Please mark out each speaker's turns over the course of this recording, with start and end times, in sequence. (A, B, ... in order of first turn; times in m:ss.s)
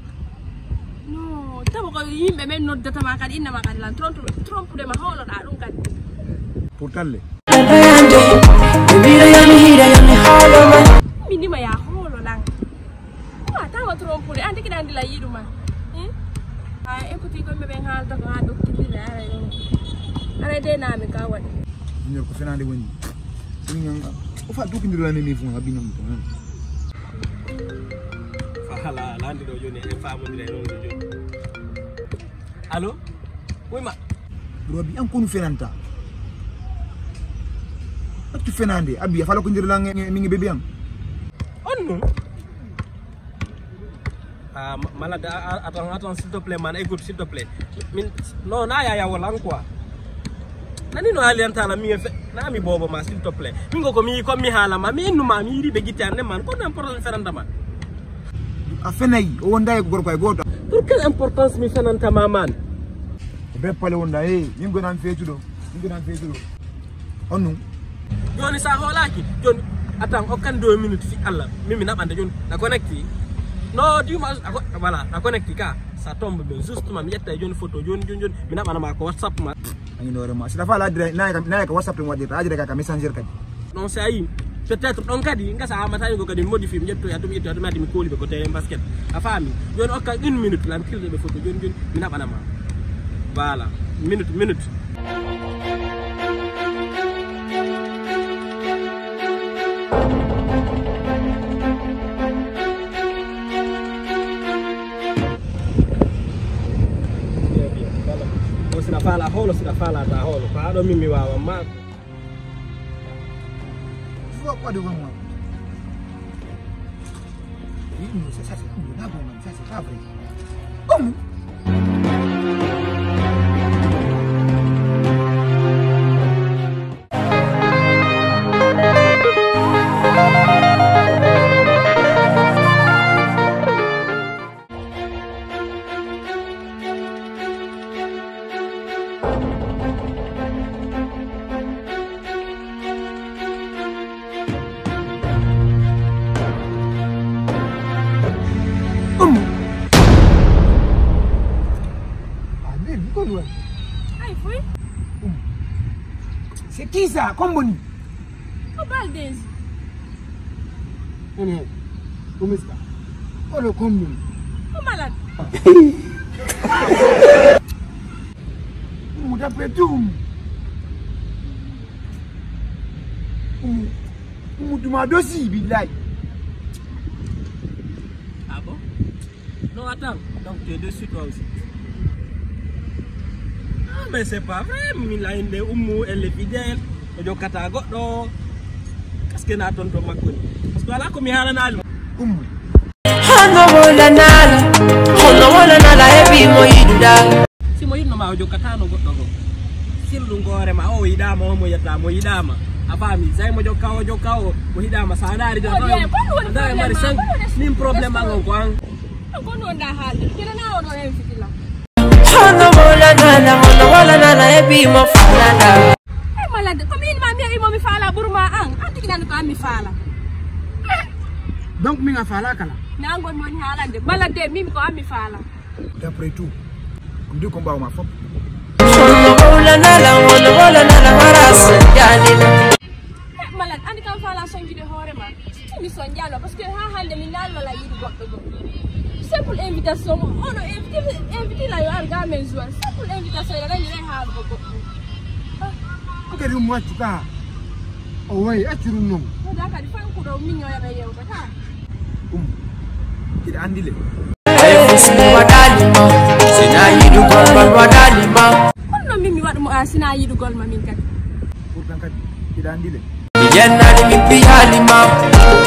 0:01.1-0:05.8 A
0:06.8-0:07.2 B
0:07.5-0:10.9 C
0:11.2-0:12.5 A
0:13.4-0:16.1 A
0:16.8-0:19.6 A
0:20.4-0:21.5 A
0:22.0-0:23.0 B
0:23.6-0:26.3 B
0:28.6-0:31.0 D
0:32.7-0:33.0 D
0:33.7-0:34.0 D
0:34.7-0:35.8 B
0:38.3-0:40.6 B
0:41.6-0:42.1 D
0:44.5-0:49.7 D
0:50.9-0:57.5 D
0:58.7-1:00.4 B
1:00.7-1:02.6 D
1:03.5-1:06.4 B
1:07.3-1:07.6 B
1:08.3-1:13.1 D
1:13.7-1:19.6 D
1:20.0-1:23.3 B
1:23.7-1:32.5 D
1:33.3-1:34.7 D
1:47.4-1:51.8 D
1:54.3-1:55.3 B
1:58.0-2:00.0 B
2:00.9-2:01.2 B
2:29.2-2:29.5 B
2:32.6-2:33.5 E
2:34.2-2:34.6 A
2:36.7-2:37.8 B
2:38.7-2:39.5 A
2:41.4-2:41.7 E
2:42.4-2:42.8 E
2:43.5-2:44.2 E
2:44.7-2:45.2 A
2:49.1-2:50.2 B
2:53.6-2:54.0 B
2:54.6-2:55.9 B
2:58.5-2:58.8 D
2:59.7-3:01.5 D
3:03.9-3:08.3 D
3:09.3-3:11.8 D
3:12.2-3:12.5 B
3:13.2-3:17.3 C
3:17.8-3:19.3 D
3:20.0-3:28.8 D
3:25.6-3:28.4 A
3:29.3-3:31.6 A
3:32.2-3:35.9 C
3:36.4-3:40.0 A
3:41.8-3:42.8 E
3:43.0-3:45.4 A
3:46.0-3:46.6 B
3:47.3-3:48.2 B
3:48.9-3:52.6 C
3:53.4-3:58.5 A
3:59.1-4:04.9 A
4:06.3-4:07.3 E
4:08.3-4:09.3 E
4:09.4-4:11.5 A
4:13.4-4:14.0 B
4:14.5-4:18.6 C
4:18.9-4:21.0 A
4:21.7-4:23.0 B
4:23.4-4:25.3 C